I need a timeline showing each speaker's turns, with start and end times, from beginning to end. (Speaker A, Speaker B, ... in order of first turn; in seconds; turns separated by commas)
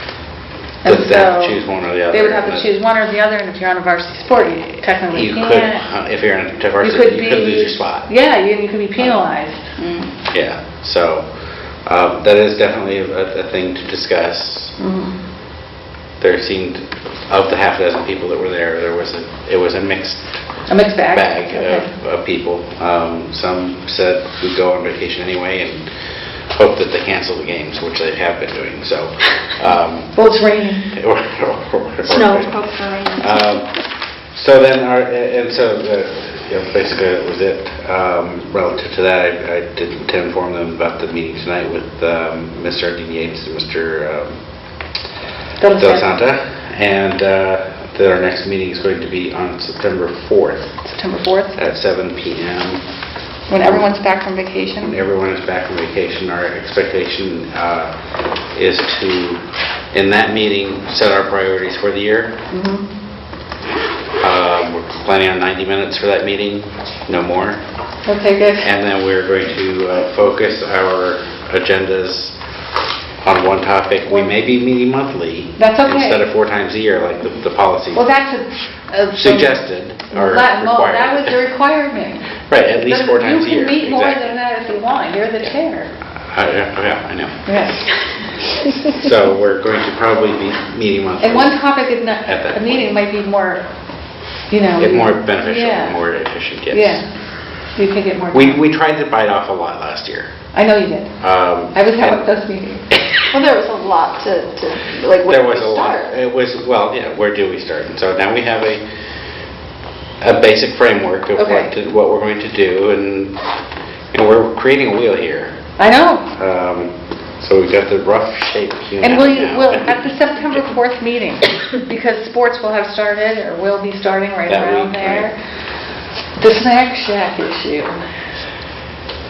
Speaker A: 0.8-1.6, Speaker B: 0.8-2.7, Speaker A: 2.1-5.8, Speaker B: 5.1-8.1, Speaker A: 6.8-9.7, Speaker C: 9.8-10.1, Speaker B: 10.3-11.3, Speaker B: 11.8-14.8, Speaker A: 14.8-15.2, Speaker B: 16.2-20.3, Speaker A: 20.7-21.9, Speaker B: 21.1-25.8, Speaker B: 26.6-32.6, Speaker A: 30.1-30.9, Speaker C: 32.0-33.4, Speaker B: 33.2-33.7, Speaker B: 34.3-44.4, Speaker A: 45.6-46.2, Speaker B: 45.7-50.8, Speaker A: 50.8-51.6, Speaker B: 51.5-52.8, Speaker A: 53.5-55.0, Speaker B: 54.8-57.9, Speaker B: 58.5-62.4, Speaker A: 62.5-62.9, Speaker B: 64.2-67.6, Speaker A: 68.1-68.7, Speaker B: 68.6-72.4, Speaker B: 73.2-78.1, Speaker A: 75.6-76.2, Speaker A: 77.9-85.9, Speaker B: 79.2-81.4, Speaker B: 82.5-84.4, Speaker B: 86.3-87.6, Speaker A: 87.5-87.9, Speaker B: 88.8-91.6, Speaker A: 91.2-93.7, Speaker B: 92.2-92.9, Speaker A: 94.5-96.0, Speaker B: 94.8-97.0, Speaker A: 96.7-97.1, Speaker A: 97.8-98.6, Speaker B: 98.3-100.3, Speaker A: 100.5-101.2, Speaker B: 101.2-102.2, Speaker A: 101.7-102.9, Speaker B: 102.9-103.2, Speaker C: 103.3-106.2, Speaker B: 105.3-108.8, Speaker B: 110.2-113.4, Speaker A: 111.4-111.7, Speaker B: 114.1-115.6, Speaker A: 115.8-116.3, Speaker B: 116.3-120.0, Speaker A: 119.0-125.4, Speaker B: 124.5-125.3, Speaker A: 126.4-128.0